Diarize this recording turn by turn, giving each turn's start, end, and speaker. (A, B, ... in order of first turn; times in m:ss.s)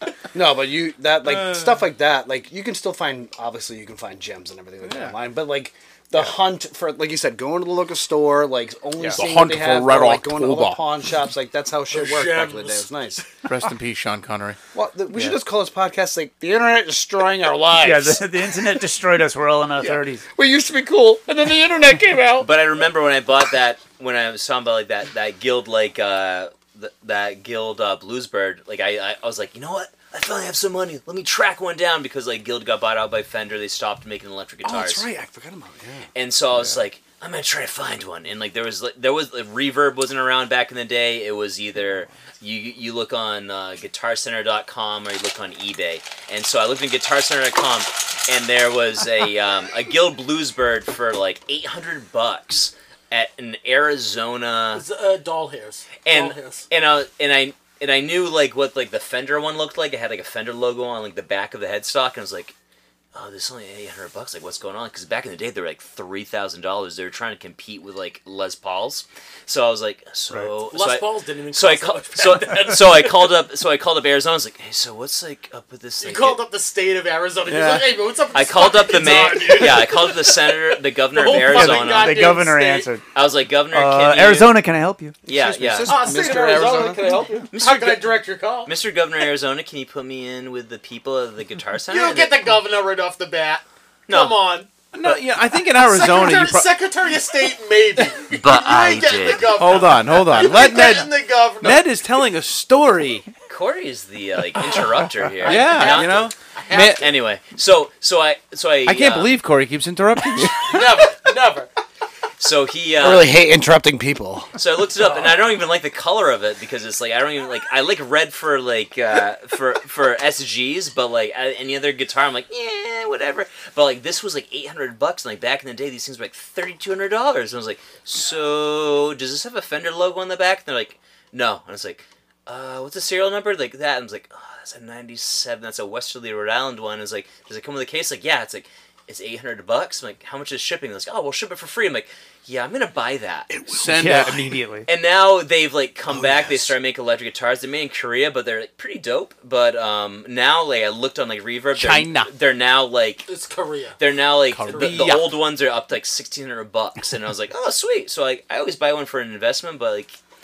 0:00.3-0:13.2 A
0:01.2-0:01.8 B
0:04.8-0:05.2 B
0:09.2-0:10.8 B
0:11.9-0:12.9 C
0:13.5-0:14.6 B
0:14.7-0:18.3 A
0:17.8-0:20.3 D
0:19.8-0:22.5 A
0:22.4-0:35.1 E
0:34.6-0:36.1 A
0:36.1-0:54.8 E
0:54.7-0:56.7 C
0:56.0-1:02.6 E
1:03.1-1:16.4 E
1:10.7-1:12.7 C
1:16.0-1:22.9 C
1:17.5-1:17.8 B
1:18.3-1:22.3 E
1:21.2-1:23.1 D
1:23.1-1:24.6 E
1:23.7-1:25.2 D
1:25.3-1:26.1 E
1:25.3-1:27.0 A
1:25.9-1:28.7 C
1:27.5-1:28.1 E
1:28.6-1:32.5 E
1:31.9-1:34.7 C
1:34.1-1:34.4 E
1:34.9-1:36.7 B
1:35.8-1:41.9 C
1:38.3-1:39.6 E
1:39.6-1:43.3 B
1:43.5-1:49.4 E
1:45.4-1:47.1 B
1:45.4-1:47.1 C
1:48.9-1:50.9 B
1:50.6-1:51.7 C
1:52.4-1:53.3 E
1:53.0-1:54.5 A
1:54.6-2:23.5 E
1:55.1-1:55.4 C
2:23.5-2:24.4 A
2:23.7-2:24.5 B
2:23.9-2:24.9 D
2:24.9-2:33.3 E
2:26.1-2:26.7 A
2:31.8-2:32.3 B
2:33.3-2:34.0 C
2:34.0-2:40.2 E
2:34.5-2:35.4 B
2:34.6-2:35.2 C